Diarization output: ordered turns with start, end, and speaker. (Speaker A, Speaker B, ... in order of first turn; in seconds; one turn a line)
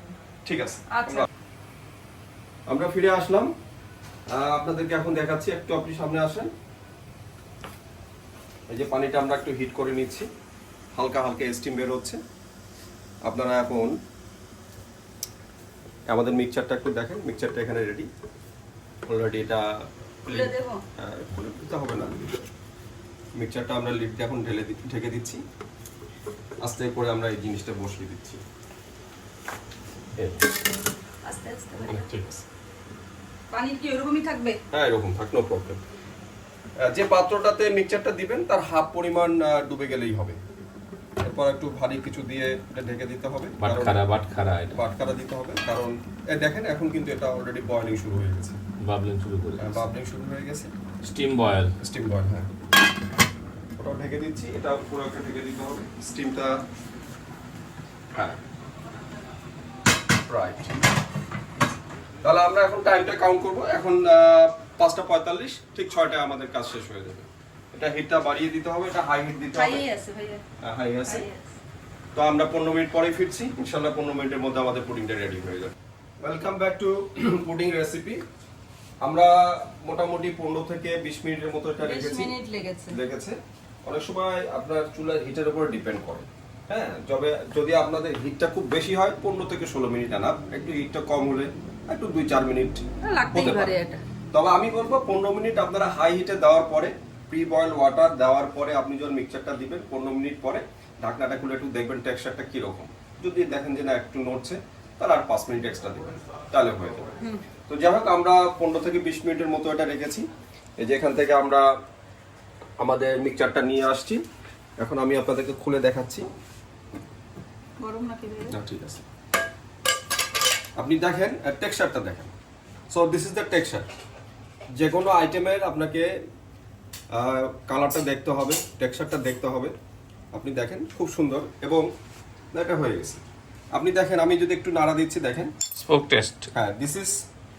Speaker A: 0.5-1.2
Speaker B: 0.9-1.2
Speaker A: 2.7-3.5
Speaker A: 4.3-6.5
Speaker A: 8.7-10.3
Speaker A: 10.9-12.2
Speaker A: 13.2-13.9
Speaker A: 16.1-18.1
Speaker A: 19.1-19.6
Speaker A: 20.2-22.1
Speaker B: 20.3-20.8
Speaker A: 23.4-25.4
Speaker A: 26.6-28.4
Speaker B: 31.2-32.1
Speaker A: 31.8-32.4
Speaker B: 33.5-34.6
Speaker A: 34.7-35.8
Speaker A: 36.9-40.4
Speaker A: 41.2-44.0
Speaker C: 43.6-44.8
Speaker A: 44.7-48.6
Speaker C: 48.8-49.8
Speaker A: 49.6-50.7
Speaker C: 51.0-51.7
Speaker A: 51.8-52.5
Speaker A: 53.8-56.6
Speaker A: 58.1-58.4
Speaker A: 60.3-60.7
Speaker A: 62.2-69.8
Speaker B: 69.5-70.4
Speaker A: 70.6-71.2
Speaker B: 71.0-71.5
Speaker A: 72.1-78.2
Speaker A: 79.0-82.3
Speaker B: 81.8-83.0
Speaker A: 82.9-93.7
Speaker B: 93.0-94.0
Speaker A: 94.3-107.1
Speaker A: 107.7-110.3
Speaker A: 110.8-111.7
Speaker A: 112.8-114.2
Speaker A: 114.8-116.3
Speaker B: 117.8-118.5
Speaker A: 118.5-119.0
Speaker A: 120.8-122.3
Speaker A: 122.9-123.8
Speaker A: 124.8-126.1
Speaker A: 127.1-129.7
Speaker A: 130.3-131.8
Speaker A: 132.5-135.5
Speaker C: 135.7-136.5
Speaker A: 136.5-137.2